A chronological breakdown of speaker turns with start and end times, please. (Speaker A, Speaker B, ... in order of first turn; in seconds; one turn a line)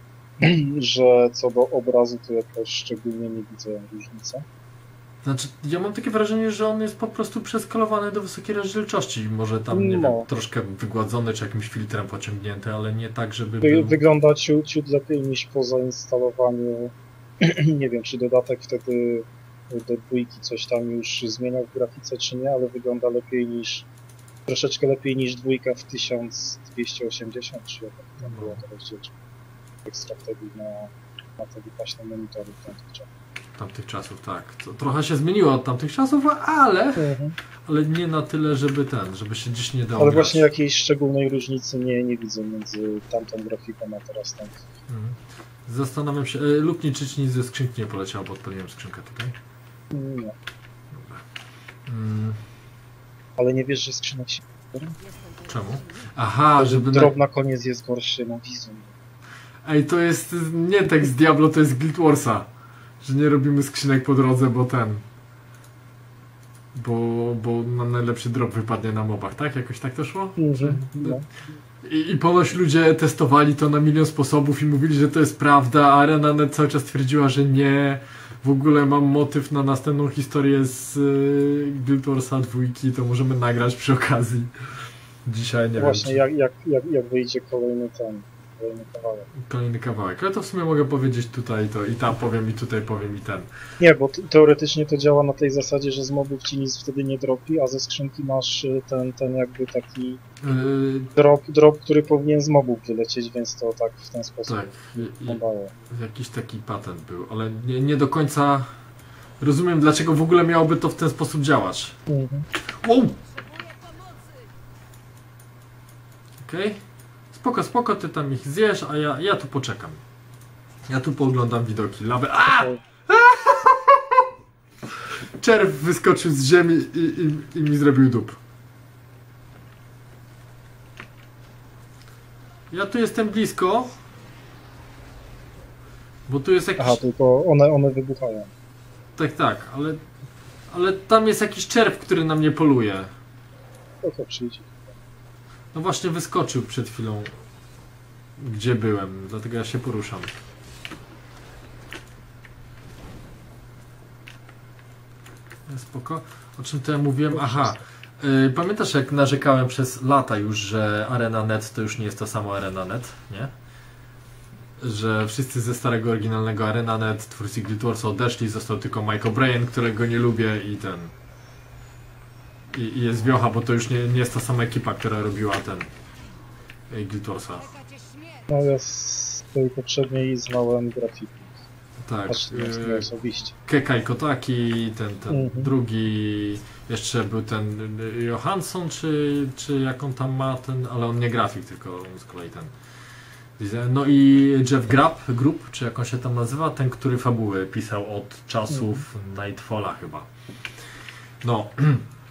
Speaker A: 0.4-4.5
Speaker B: 5.2-14.0
Speaker A: 9.7-10.3
Speaker A: 13.6-23.9
Speaker A: 24.5-29.1
Speaker B: 28.2-28.6
Speaker A: 29.9-33.1
Speaker B: 33.6-37.1
Speaker A: 37.0-37.4
Speaker B: 37.6-40.5
Speaker A: 40.0-44.6
Speaker B: 44.9-49.4
Speaker A: 49.9-50.4
Speaker B: 50.9-51.2
Speaker B: 51.9-52.4
Speaker A: 53.4-55.0
Speaker C: 55.0-56.2
Speaker B: 55.5-57.1
Speaker A: 56.6-59.0
Speaker B: 59.6-62.5
Speaker B: 63.0-65.0
Speaker B: 66.7-71.2
Speaker A: 70.4-71.3
Speaker B: 71.8-84.5
Speaker B: 85.2-86.2
Speaker A: 85.8-89.3
Speaker B: 89.4-93.5
Speaker A: 93.8-100.2
Speaker B: 100.4-101.1
Speaker A: 101.1-105.7
Speaker B: 104.5-108.7
Speaker B: 109.4-112.0
Speaker A: 112.1-112.5
Speaker B: 112.8-113.2
Speaker C: 113.3-114.5
Speaker B: 116.4-116.8
Speaker B: 117.3-120.0
Speaker B: 120.8-124.3
Speaker B: 124.9-128.4
Speaker B: 132.7-133.9
Speaker B: 136.3-137.0
Speaker A: 136.8-138.5
Speaker B: 139.2-140.0
Speaker B: 140.7-143.1
Speaker A: 144.0-144.9
Speaker B: 145.7-147.3
Speaker B: 148.4-150.3
Speaker B: 155.7-163.5
Speaker A: 157.4-157.7
Speaker B: 164.8-171.1
Speaker B: 172.7-175.9
Speaker B: 176.9-177.7
Speaker A: 178.5-181.6
Speaker B: 182.0-183.1
Speaker A: 182.3-183.6
Speaker B: 183.7-192.7
Speaker A: 185.3-185.7
Speaker B: 193.6-200.3
Speaker B: 201.4-202.1